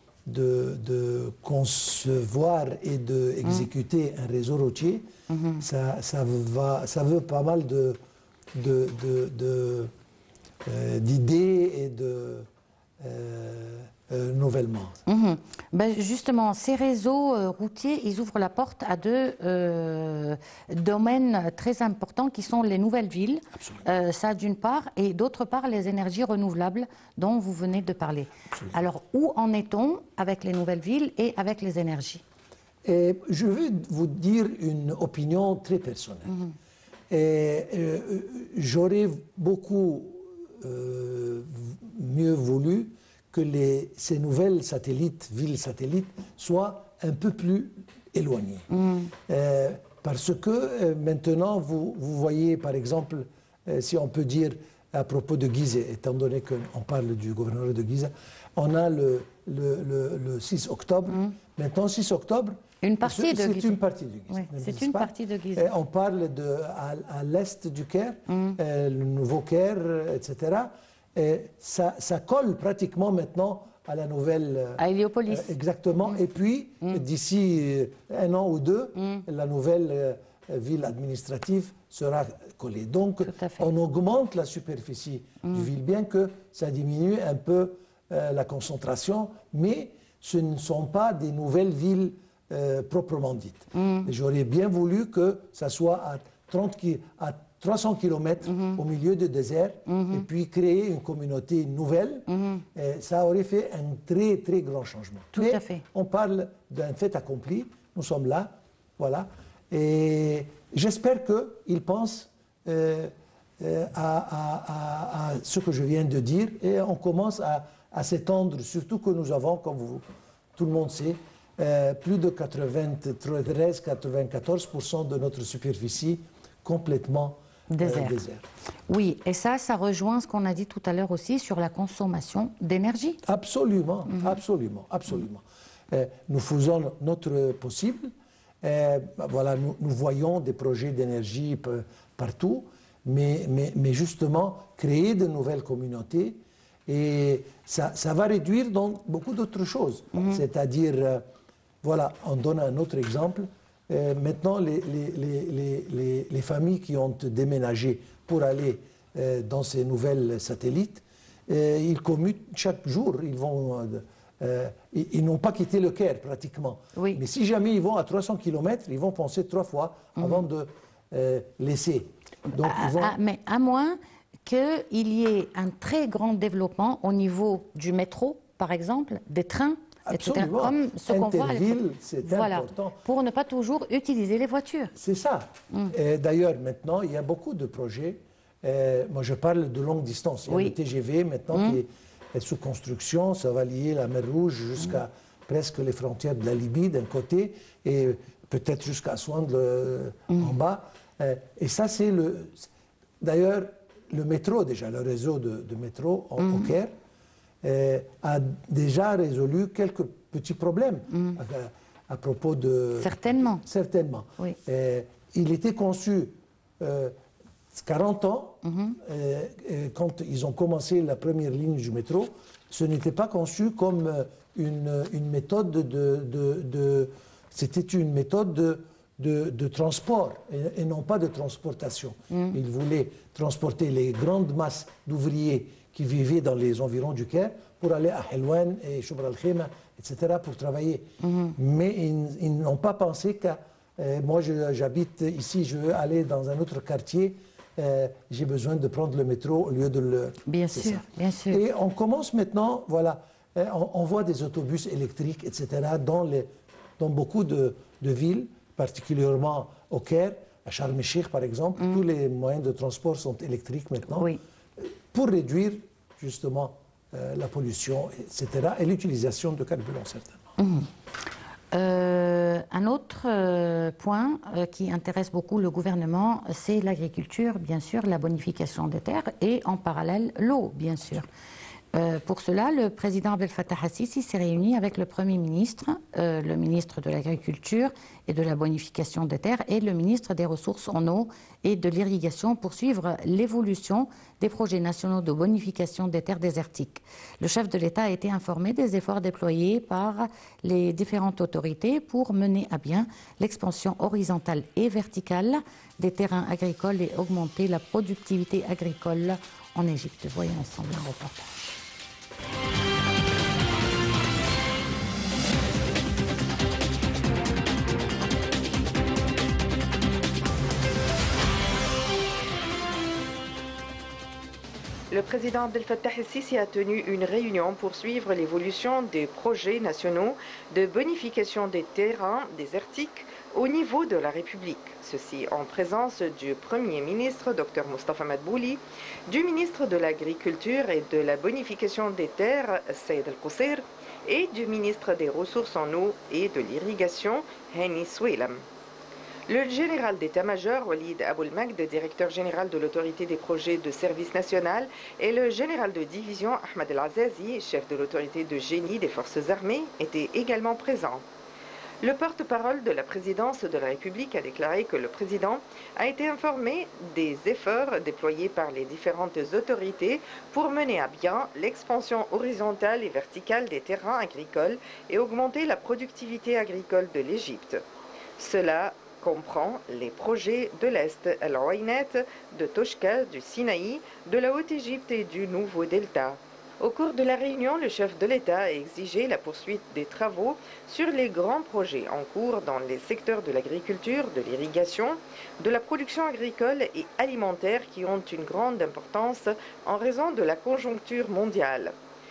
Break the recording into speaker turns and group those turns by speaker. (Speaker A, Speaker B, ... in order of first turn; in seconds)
Speaker A: 0.3-8.0, 8.5-9.9, 10.7-12.5, 13.0-15.0, 23.5-23.9, 32.9-36.4, 37.1-48.7, 49.3-128.5, 133.2-151.2, 151.8-173.2, 180.1-183.0, 184.9-202.7, 203.2-206.9, 207.6-217.2, 217.7-270.5
Speaker B: 5.3-5.6, 15.1-32.2, 48.7-49.1, 62.8-63.8, 64.3-65.7, 74.8-75.5, 83.2-83.7, 85.4-85.7, 93.7-94.1, 99.9-100.2, 102.3-102.6, 105.3-105.8, 127.7-128.2, 128.9-133.2, 166.9-167.2, 170.2-170.4, 172.5-184.9, 190.5-190.8, 191.5-191.8, 206.4-206.7, 213.0-213.6, 218.7-219.0, 232.3-232.6, 241.2-241.6, 250.5-251.6, 264.1-264.4, 270.6-270.9, 271.7-281.3, 281.9-311.6
Speaker C: 325.1-348.6, 349.5-361.2, 362.0-377.8, 378.4-401.9